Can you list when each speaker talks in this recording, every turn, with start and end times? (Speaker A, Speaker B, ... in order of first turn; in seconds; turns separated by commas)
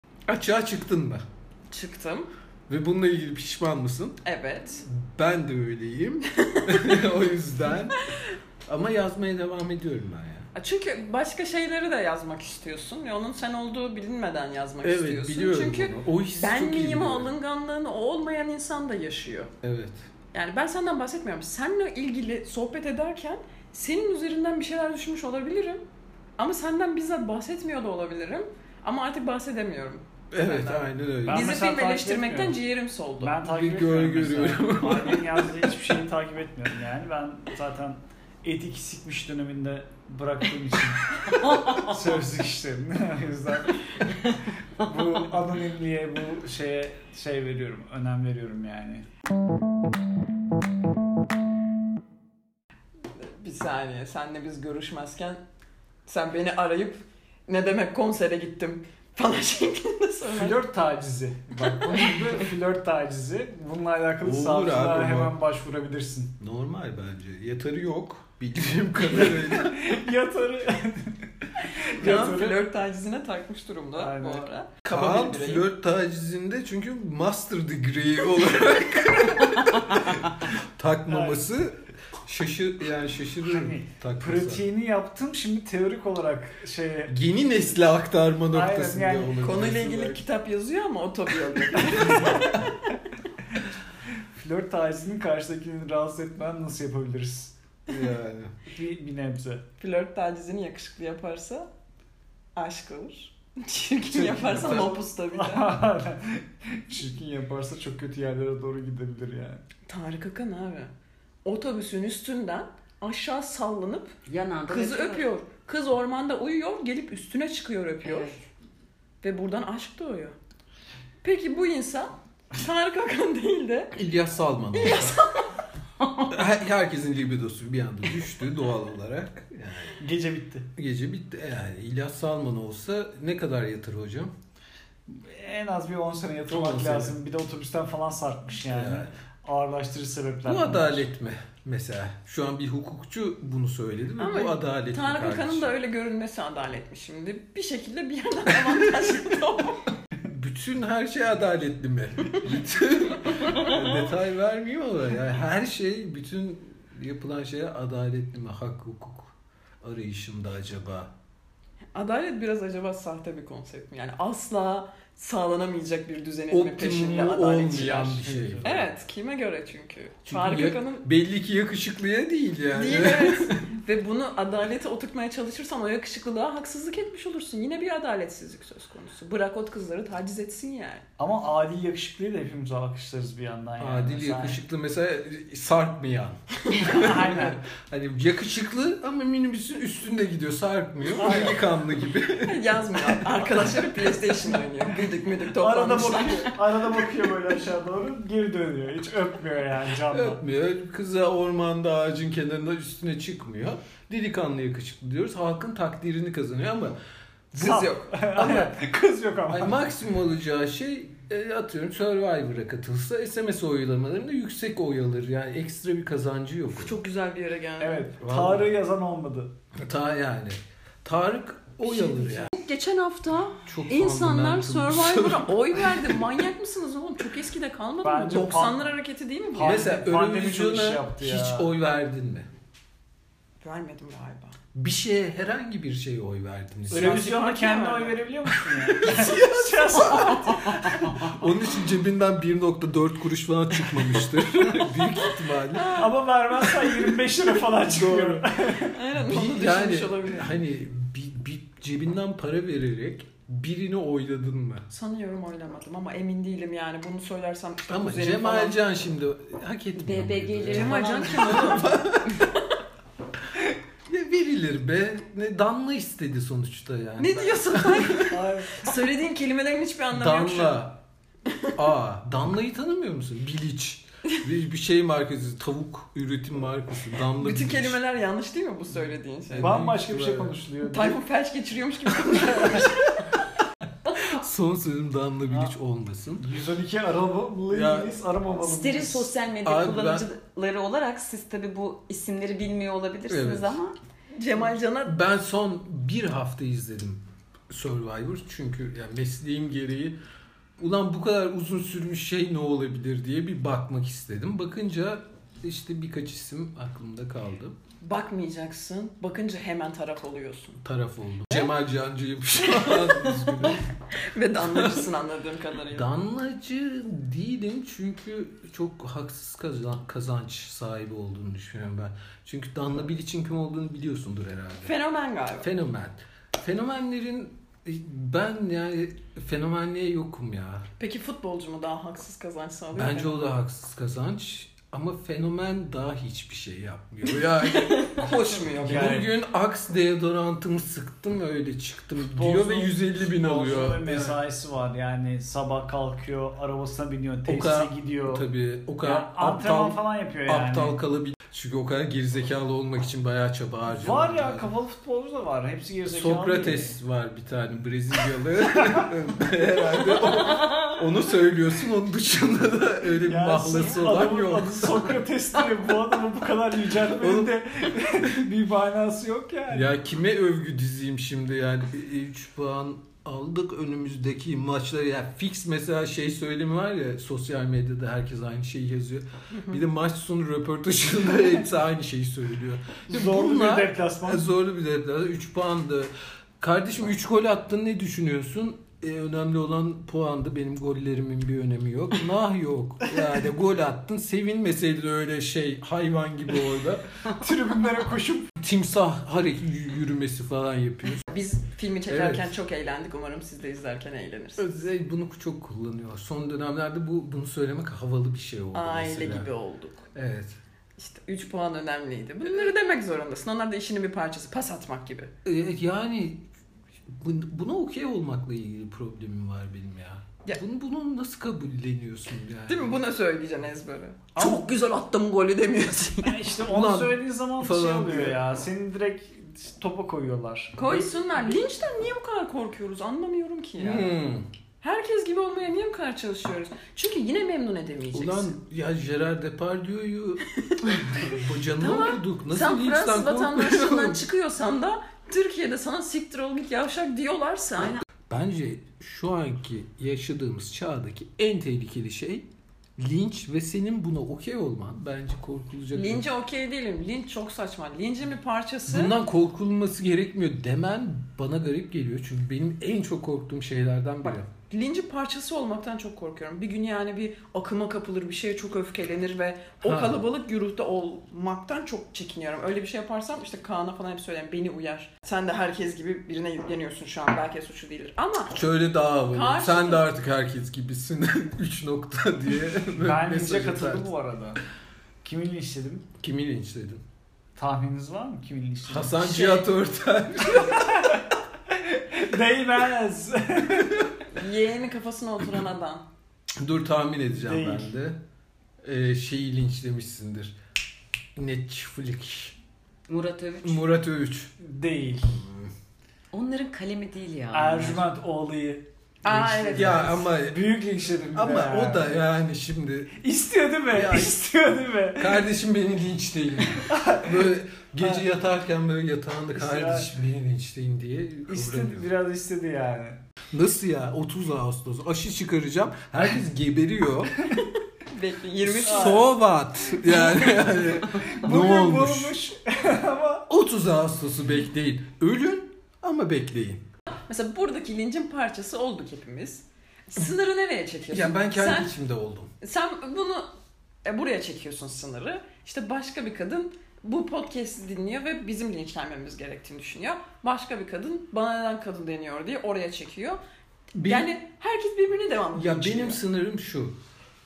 Speaker A: 0.3-1.2, Speaker B: 1.7-2.3, Speaker A: 2.7-4.2, Speaker B: 4.2-4.8, Speaker A: 4.8-8.0, Speaker B: 6.5-6.9, Speaker A: 8.7-10.5, Speaker B: 10.6-19.5, Speaker A: 14.8-17.3, Speaker A: 19.6-20.0, Speaker B: 20.3-25.8, Speaker B: 26.4-33.4, Speaker A: 30.3-31.5, Speaker C: 31.2-32.6, Speaker C: 33.2-49.1, Speaker A: 33.4-35.8, Speaker B: 53.1-55.4, Speaker B: 56.1-60.6, Speaker C: 60.3-66.3, Speaker A: 64.2-65.4, Speaker A: 66.4-69.9, Speaker C: 69.2-72.6, Speaker B: 72.0-75.7, Speaker C: 74.0-74.5, Speaker A: 74.9-84.7, Speaker C: 81.1-81.4, Speaker C: 83.4-87.2, Speaker A: 87.1-90.2, Speaker C: 88.5-89.4, Speaker B: 89.4-92.7, Speaker A: 91.9-92.4, Speaker C: 92.0-92.3, Speaker C: 94.3-97.5, Speaker A: 97.9-98.5, Speaker C: 98.7-99.7, Speaker B: 99.8-101.7, Speaker B: 102.6-105.7, Speaker C: 104.1-109.6, Speaker A: 104.3-105.0, Speaker B: 109.9-110.9, Speaker B: 111.4-114.2, Speaker D: 114.3-115.3, Speaker B: 114.7-118.4, Speaker D: 118.0-118.4, Speaker B: 119.2-120.4, Speaker B: 121.2-124.0, Speaker A: 123.9-125.2, Speaker B: 124.7-125.5, Speaker A: 126.3-130.0, Speaker C: 130.0-130.7, Speaker A: 130.8-134.3, Speaker C: 135.1-141.1, Speaker A: 136.5-137.2, Speaker A: 138.7-139.1, Speaker A: 140.4-145.7, Speaker B: 144.2-149.9, Speaker A: 150.3-161.1, Speaker B: 161.9-171.1, Speaker A: 166.5-168.9, Speaker C: 167.7-168.9, Speaker A: 170.3-173.6, Speaker B: 172.7-181.1, Speaker C: 181.2-184.6, Speaker A: 183.8-193.5, Speaker B: 186.7-187.1, Speaker C: 186.8-187.6, Speaker C: 191.2-191.6, Speaker B: 192.4-196.6, Speaker C: 195.6-200.4, Speaker A: 200.1-207.0, Speaker B: 207.5-208.7, Speaker C: 207.5-209.8, Speaker A: 209.5-217.0, Speaker B: 216.7-218.1, Speaker C: 217.8-219.5, Speaker A: 218.2-218.7, Speaker A: 219.8-222.5, Speaker B: 221.8-229.8, Speaker A: 223.6-226.2, Speaker C: 228.0-228.9, Speaker C: 229.5-231.7, Speaker A: 229.6-232.5, Speaker B: 233.6-234.6, Speaker A: 234.7-237.4, Speaker C: 236.9-241.3, Speaker B: 236.9-238.2, Speaker A: 238.9-246.1, Speaker B: 245.7-246.1, Speaker C: 245.9-248.9, Speaker A: 247.9-248.4, Speaker B: 248.0-250.6, Speaker A: 249.2-254.9, Speaker B: 254.9-258.8, Speaker A: 257.9-262.5, Speaker D: 260.0-261.9, Speaker B: 260.7-262.4, Speaker A: 264.1-268.3, Speaker B: 267.2-270.9, Speaker C: 268.3-268.9, Speaker A: 270.1-271.0, Speaker B: 271.5-271.7, Speaker A: 271.8-278.0, Speaker B: 277.4-279.9, Speaker A: 279.5-280.6, Speaker C: 279.6-281.2, Speaker B: 280.9-283.2, Speaker C: 282.5-282.9, Speaker A: 284.1-286.5, Speaker C: 286.4-289.3, Speaker A: 287.7-288.2, Speaker D: 288.6-293.9, Speaker A: 289.6-290.3, Speaker A: 293.3-293.8, Speaker B: 294.4-295.2, Speaker A: 295.0-300.2, Speaker A: 300.8-307.8, Speaker B: 308.0-310.8, Speaker A: 310.8-313.9, Speaker B: 312.9-316.1, Speaker A: 314.6-315.1, Speaker A: 315.9-324.9, Speaker B: 324.8-325.7, Speaker A: 325.6-330.9, Speaker B: 331.0-333.5, Speaker A: 332.9-344.4, Speaker B: 337.9-339.2, Speaker C: 338.8-339.3, Speaker C: 342.4-348.4, Speaker A: 347.5-354.7, Speaker C: 349.0-351.0, Speaker C: 353.9-357.0, Speaker A: 356.1-365.2, Speaker C: 358.8-359.1, Speaker C: 363.2-369.9, Speaker A: 367.1-367.6, Speaker A: 369.7-397.0, Speaker C: 383.1-384.4, Speaker C: 397.3-398.5, Speaker A: 398.6-401.2, Speaker B: 401.3-404.7, Speaker A: 402.1-402.5, Speaker A: 404.6-409.5, Speaker B: 408.7-410.1, Speaker A: 410.1-410.6, Speaker B: 411.0-415.3, Speaker A: 415.4-416.5, Speaker A: 417.1-423.0, Speaker B: 422.7-426.4, Speaker C: 426.2-431.1, Speaker A: 426.7-428.4, Speaker B: 430.8-434.1, Speaker A: 433.8-434.5, Speaker B: 434.8-438.6, Speaker A: 438.1-440.4, Speaker A: 441.1-444.2, Speaker B: 441.8-448.0, Speaker A: 448.3-456.3, Speaker B: 455.9-459.1, Speaker A: 458.9-464.5, Speaker B: 464.2-478.6, Speaker A: 469.8-470.2, Speaker A: 478.5-484.1, Speaker B: 479.3-480.1, Speaker C: 483.0-484.6, Speaker C: 485.2-486.1, Speaker A: 486.2-487.0, Speaker C: 487.6-489.2, Speaker A: 488.9-491.1, Speaker B: 489.2-489.7, Speaker C: 490.6-494.1, Speaker B: 494.3-496.1, Speaker A: 496.6-498.2, Speaker C: 497.4-497.9, Speaker A: 498.8-500.6, Speaker A: 501.4-502.6, Speaker D: 503.1-503.9, Speaker A: 503.6-504.5, Speaker C: 504.6-505.4, Speaker A: 505.3-505.7, Speaker D: 506.3-508.1, Speaker C: 507.5-512.2, Speaker B: 509.2-510.2, Speaker A: 509.7-510.6, Speaker A: 511.3-513.1, Speaker C: 513.2-515.4, Speaker A: 513.9-514.4, Speaker A: 515.2-522.1, Speaker C: 516.9-517.4, Speaker C: 519.5-520.1, Speaker C: 521.5-523.2, Speaker A: 523.5-527.5, Speaker B: 528.1-529.3, Speaker A: 528.6-532.4, Speaker C: 528.8-529.3, Speaker C: 530.2-533.5, Speaker A: 533.5-536.8, Speaker B: 537.3-541.9, Speaker A: 541.1-542.5, Speaker B: 542.6-543.5, Speaker B: 544.0-553.4, Speaker A: 554.0-554.3, Speaker B: 554.0-556.2, Speaker A: 555.5-556.9